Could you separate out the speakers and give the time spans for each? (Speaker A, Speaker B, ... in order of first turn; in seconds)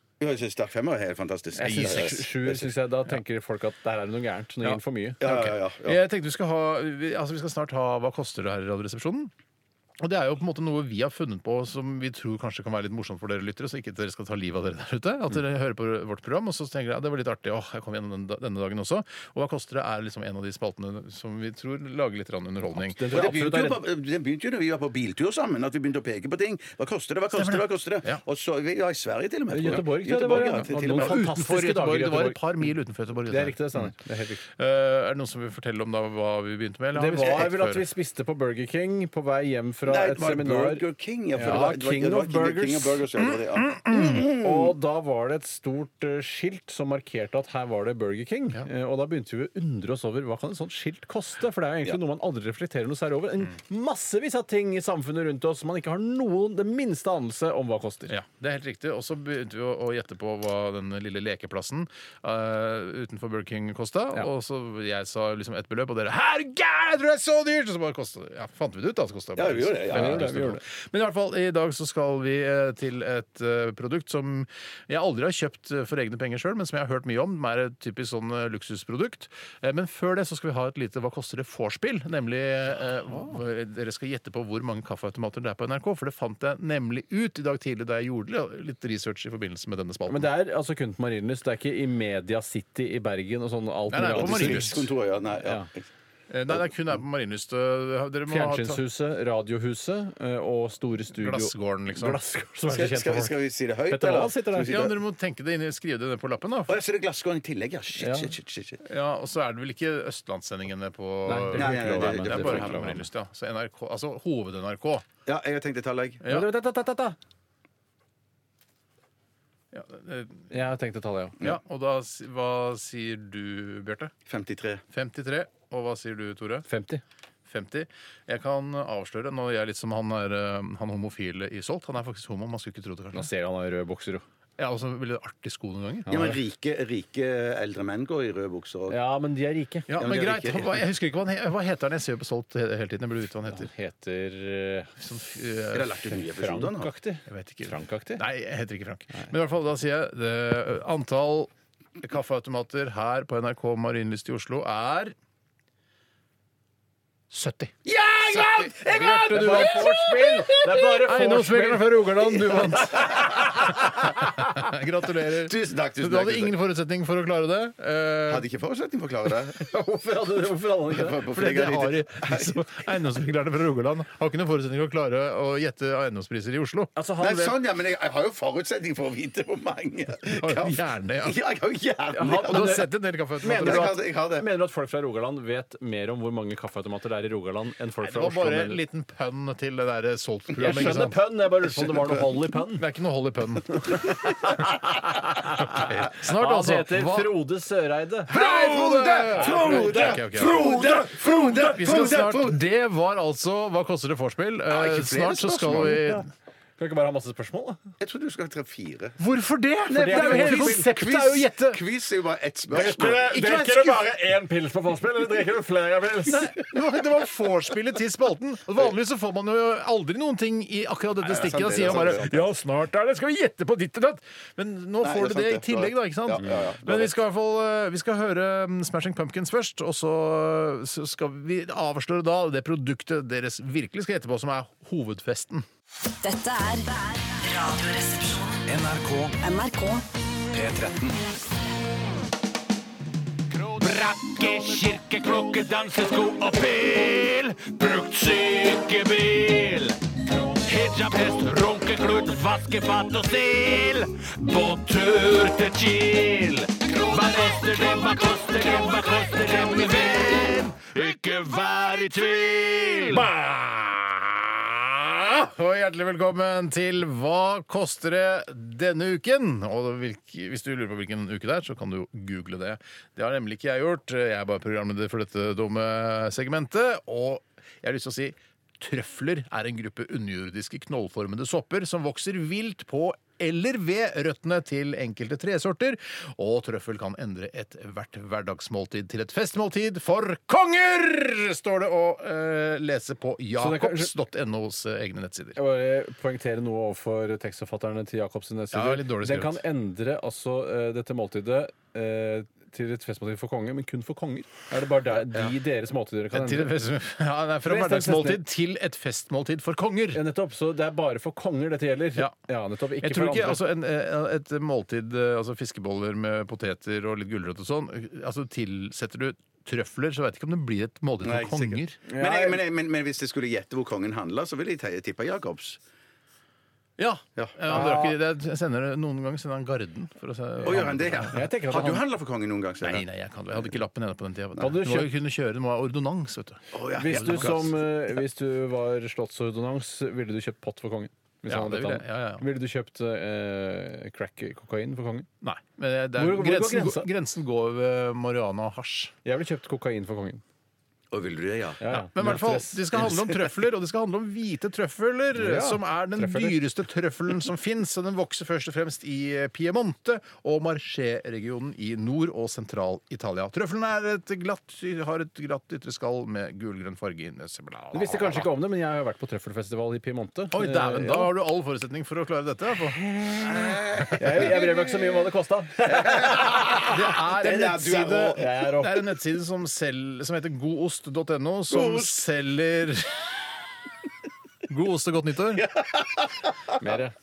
Speaker A: 0.2-2.7, 5.2-6.0, 23.1-31.2, 37.2-37.5, 39.9-44.7, 69.3-70.4, 94.1-95.9, 102.7-105.0, 106.7-108.8, 111.5-113.0, 115.2-116.2, 124.2-124.8, 136.1-139.0, 139.9-140.8, 145.7-146.9, 157.8-161.0, 162.3-164.1, 165.3-166.6, 168.2-169.6, 170.9-172.8, 177.2-182.8, 183.4-184.5, 198.3-202.6, 204.7-206.2, 208.0-209.2, 209.9-213.2, 221.2-222.5, 225.0-227.1, 321.2-325.8, 330.6-333.1, 336.7-337.7, 351.1-351.8, 352.9-353.3, 373.8-374.6, 376.0-378.4, 381.7-382.2, 385.5-386.8
Speaker B: 1.5-5.2, 22.8-23.8, 29.5-32.7, 33.3-34.4, 36.9-43.0, 44.2-58.1, 69.9-70.6, 90.1-94.8, 95.4-95.7, 98.3-104.7, 108.0-108.3, 111.2-113.0, 116.3-117.2, 120.5-121.4, 126.7-127.0, 133.1-134.2, 136.1-136.4, 138.9-139.9, 143.5-144.9, 146.3-148.2, 159.2-162.5, 169.6-171.2, 176.9-177.6, 182.1-182.9, 183.4-188.8, 190.6-192.8, 193.9-198.3, 199.3-200.2, 206.8-207.8, 209.9-210.9, 212.7-216.5, 293.6-294.1, 295.6-306.7, 307.6-308.4, 310.1-313.6, 322.1-322.6, 327.7-328.2, 331.3-332.0, 334.6-335.1, 336.9-345.3, 346.2-347.1, 349.2-350.4, 351.8-353.0, 355.3-356.6, 367.9-371.3, 374.1-376.8, 377.9-379.1, 386.8-387.1
Speaker C: 1.6-2.2, 4.6-9.3, 10.0-23.1, 27.3-28.2, 30.8-33.9, 34.5-37.9, 43.5-44.2, 58.1-90.3, 93.9-94.9, 96.3-98.8, 101.2-102.2, 104.7-106.8, 108.8-115.0, 116.2-116.5, 119.7-120.5, 121.4-124.1, 124.9-126.7, 127.5-133.3, 134.6-136.1, 139.9-143.7, 145.0-146.2, 147.3-155.1, 157.3-160.4, 161.0-168.5, 171.3-176.9, 180.3-181.4, 182.3-183.9, 188.0-191.2, 192.7-194.8, 195.4-197.4, 198.3-206.2, 209.2-211.8, 213.0-214.0, 216.2-235.7, 263.0-295.6, 298.7-299.6, 306.3-310.2, 313.0-322.0, 327.0-331.4, 332.8-337.7, 341.5-342.4, 345.4-349.1, 351.9-368.5, 370.5-374.5, 376.1-383.4, 384.7-385.7
Speaker D: 236.2-238.6, 239.4-240.0
Speaker E: 238.7-239.3, 240.6-241.0, 243.6-250.0, 250.5-263.2